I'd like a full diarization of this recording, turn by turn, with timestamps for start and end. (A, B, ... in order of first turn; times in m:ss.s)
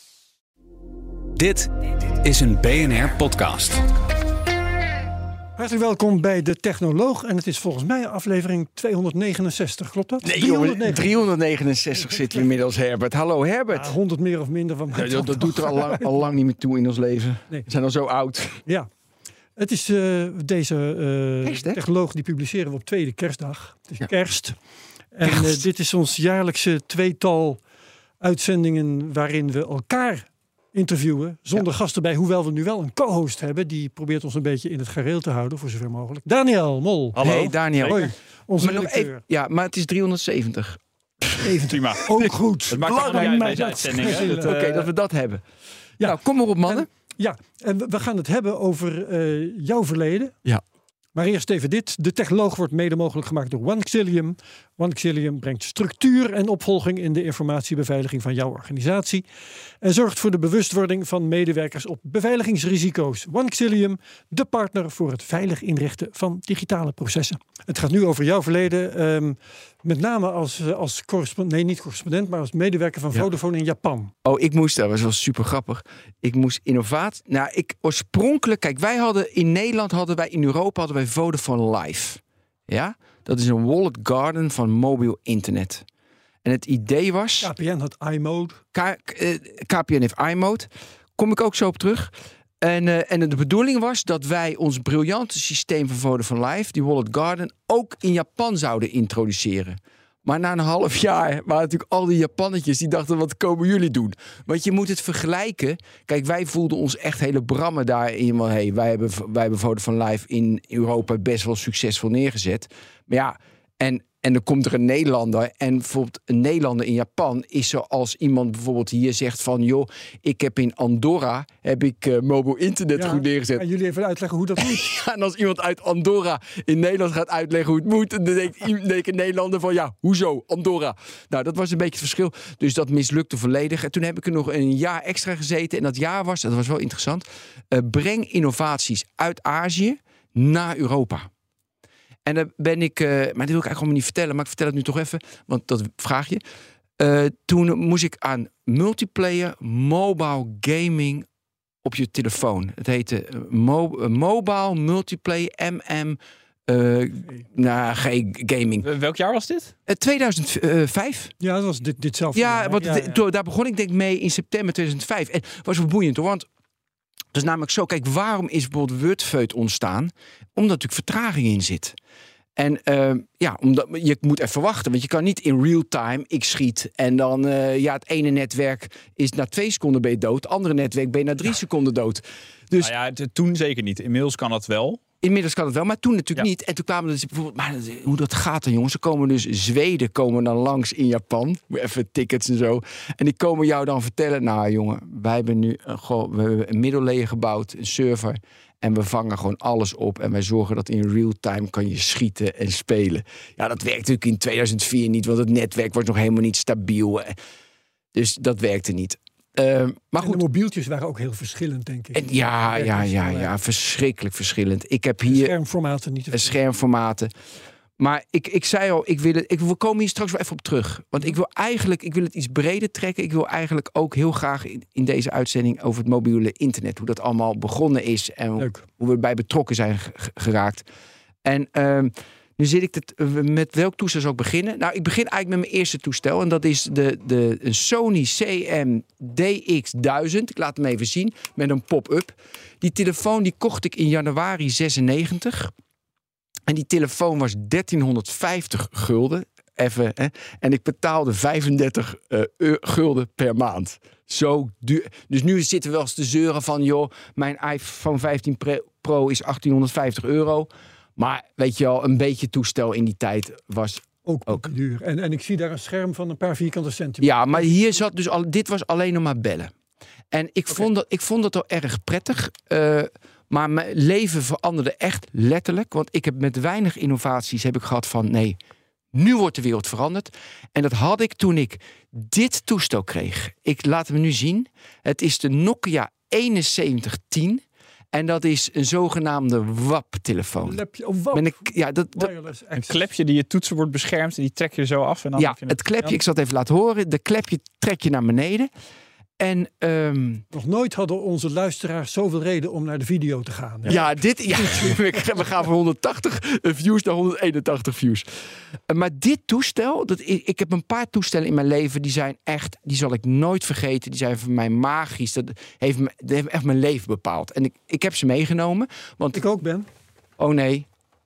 0:01.4-0:03.8 A
0:05.6-0:11.1 B
0:10.2-0:13.9 C
0:13.7-0:16.1 B
0:14.9-0:18.6 C
0:19.6-0:24.6 B
0:21.4-0:21.8 C
0:25.1-0:27.6 B
0:25.2-0:25.6 C
0:28.2-0:39.2 B
0:37.2-0:38.1 D
0:37.2-0:41.5 C
0:41.4-0:44.6 B
0:41.7-0:42.1 D
0:42.0-0:45.4 C
0:42.7-0:44.8 D
0:46.0-0:46.9 C
0:46.0-0:50.4 B
0:51.1-0:59.2 B
0:59.8-1:14.1 B
1:14.2-1:25.8 C
1:26.4-1:27.5 C
1:27.4-1:28.6 B
1:28.7-2:03.6 C
2:02.9-2:04.8 B
2:04.6-2:21.3 C
2:22.2-2:26.4 C
2:27.0-2:31.2 C
2:31.8-2:38.8 C
2:38.8-2:39.7 D
2:39.9-2:41.3 C
2:41.4-2:43.2 B
2:42.3-2:46.5 C
2:47.3-2:52.0 C
2:52.6-3:02.9 C
3:02.8-3:05.0 D
3:05.2-3:27.3 C
3:28.1-3:30.4 C
3:30.2-3:33.5 B
3:32.1-3:35.5 C
3:35.2-3:36.6 B
3:36.3-3:37.3 C
3:38.0-3:50.8 C
3:48.6-3:48.8 B
3:51.4-4:05.7 C
4:06.7-4:24.7 C
4:24.2-4:27.9 B
4:27.2-4:29.7 C
4:30.3-4:38.6 C
4:39.1-4:50.8 C
4:50.6-4:53.0 B
4:51.3-4:52.3 C
4:52.8-4:55.8 D
4:55.4-4:58.7 C
4:59.4-5:00.4 C
5:00.5-5:05.2 B
5:03.8-5:08.2 C
5:08.9-5:19.4 C
5:19.3-5:19.9 B
5:20.4-5:20.9 C